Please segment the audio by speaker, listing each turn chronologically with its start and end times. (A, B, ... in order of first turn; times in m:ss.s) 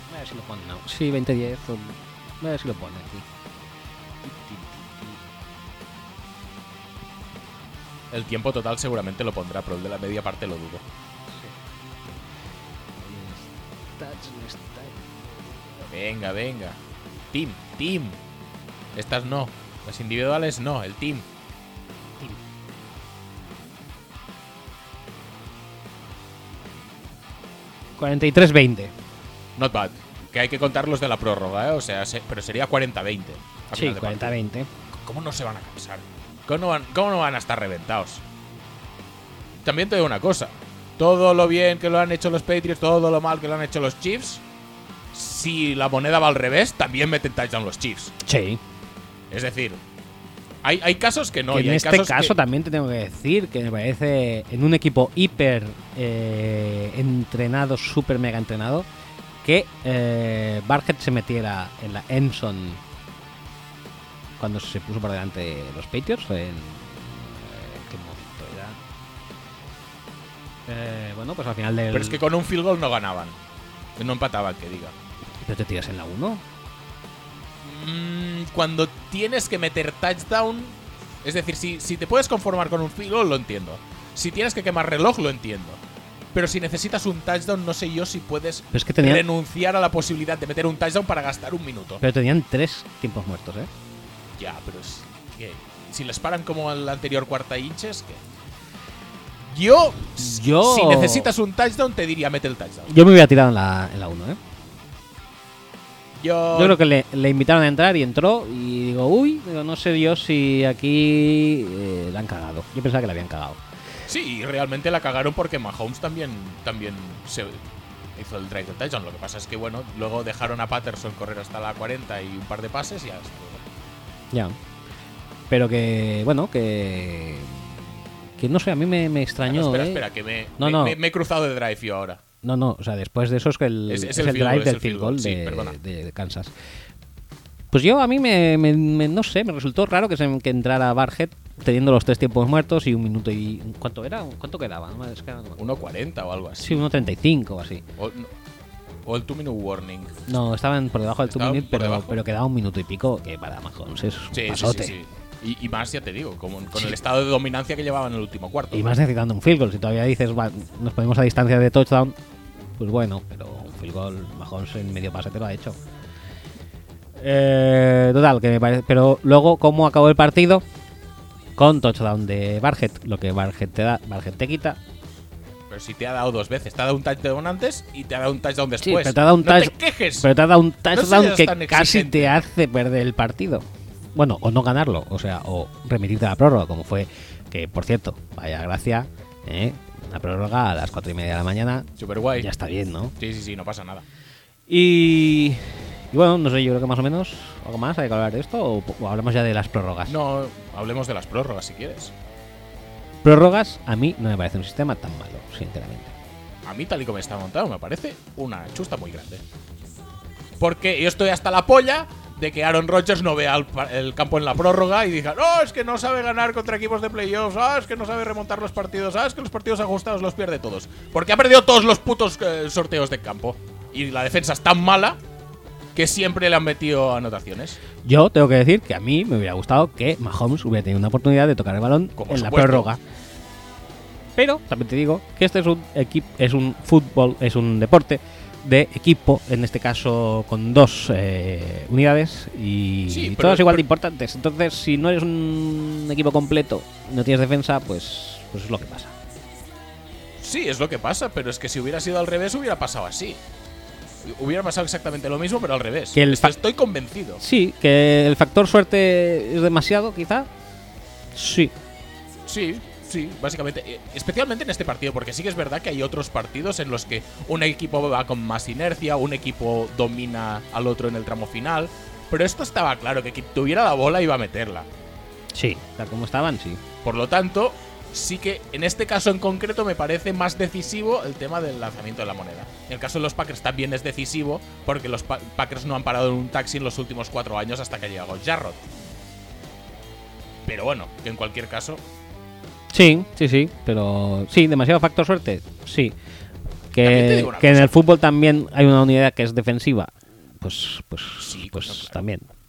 0:00.1-0:03.3 A
0:04.2-0:05.2 A
0:08.1-0:10.8 B
0:13.0-0:15.0 A
0:15.9-0:16.8 B
0:17.3-0:18.2 B
0:18.9-0:21.3 B
0:28.0-0:28.9 A
0:29.6-0:34.4 B
0:33.7-0:34.7 A
0:34.9-0:38.2 B
0:39.6-0:44.4 B
0:45.1-0:48.2 B
0:48.2-0:48.6 A
0:49.3-0:49.8 B
0:50.6-0:52.4 B
0:51.5-0:58.9 A
0:59.4-1:02.8 A
1:04.4-1:08.8 A
1:10.7-1:12.2 A
1:11.9-1:13.4 B
1:14.0-1:14.9 B
1:15.4-1:16.4 A
1:17.6-1:25.8 B
1:26.3-1:32.0 B
1:28.7-1:29.2 A
1:32.0-1:33.7 A
1:34.4-1:38.2 B
1:39.4-1:42.9 B
1:40.2-1:41.3 A
1:42.9-1:44.4 A
1:46.2-1:46.8 B
1:46.5-1:53.6 A
1:54.1-1:57.6 B
1:58.2-2:03.7 B
2:05.5-2:07.8 A
2:08.4-2:10.0 A
2:09.4-2:12.2 B
2:10.6-2:11.0 A
2:12.4-2:16.5 A
2:13.9-2:15.8 B
2:17.7-2:25.6 A
2:25.6-2:27.0 B
2:26.6-2:27.8 A
2:28.0-2:28.3 B
2:29.0-2:30.1 B
2:30.3-2:35.0 A
2:31.3-2:32.2 B
2:34.3-2:38.9 B
2:38.7-2:42.2 A
2:42.8-2:45.8 A
2:47.2-2:50.6 A
2:51.6-2:54.8 A
2:55.7-3:00.3 B
2:58.8-3:13.2 A
3:00.9-3:02.4 B
3:12.0-3:12.5 B
3:13.2-3:14.1 B
3:14.7-3:20.2 A
3:20.1-3:22.1 B
3:23.2-3:26.1 A
3:26.6-3:29.4 B
3:30.6-3:45.2 B
3:46.0-3:47.8 B
3:48.0-3:53.0 A
3:52.2-3:52.9 B
3:54.4-4:09.2 A
4:03.1-4:03.8 B
4:10.4-4:13.4 B
4:14.2-4:17.4 B
4:16.2-4:16.6 A
4:17.4-4:20.5 A
4:21.4-4:21.7 A
4:22.5-4:34.9 B
4:35.6-4:36.8 A
4:37.0-4:48.9 B
4:50.6-4:52.0 B
4:52.9-4:56.2 A
4:56.9-5:02.5 A
4:57.0-4:58.0 B
5:01.4-5:02.2 B